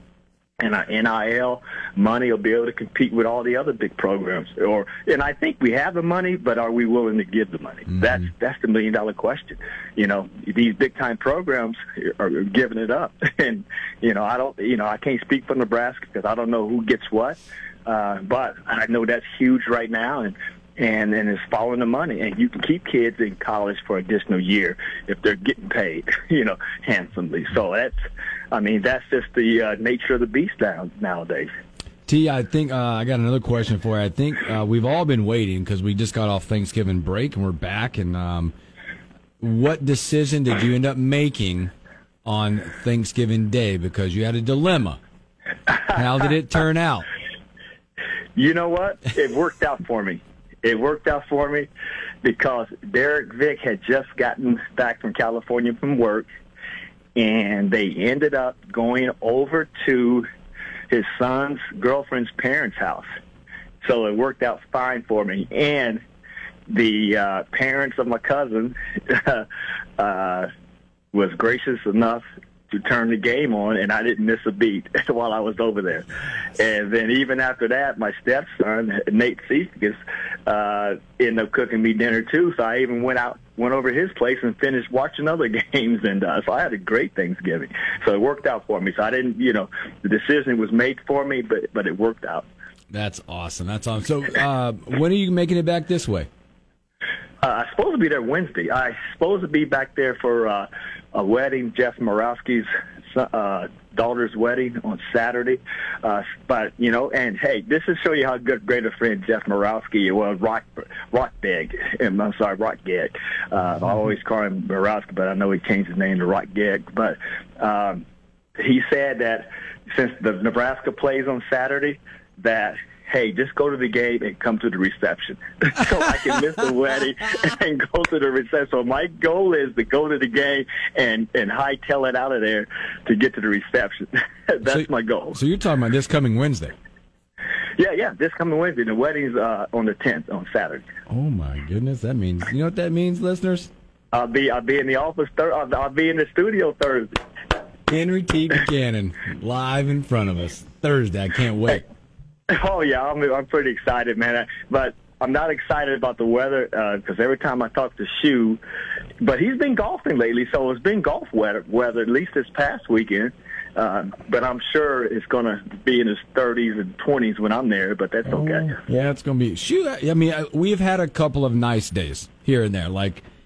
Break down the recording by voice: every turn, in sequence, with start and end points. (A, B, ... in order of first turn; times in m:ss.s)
0:00.6-0:28.0 A
0:28.5-0:31.5 A
0:32.1-0:38.5 B
0:39.4-0:41.7 B
0:42.2-0:45.0 B
0:45.9-0:47.1 B
0:48.4-0:51.7 A
0:52.2-0:56.3 A
0:57.2-1:00.3 A
1:00.9-1:03.1 A
1:03.8-1:06.0 A
1:06.7-1:09.5 A
1:10.0-1:10.5 A
1:11.1-1:32.4 A
1:32.9-1:36.3 B
1:37.4-1:58.0 A
1:58.6-2:15.4 A
2:14.6-2:16.7 B
2:17.8-2:20.9 A
2:21.1-2:23.7 B
2:24.1-2:27.1 A
2:27.9-2:31.8 B
2:32.5-2:38.6 A
2:39.2-2:48.8 A
2:48.3-2:53.2 B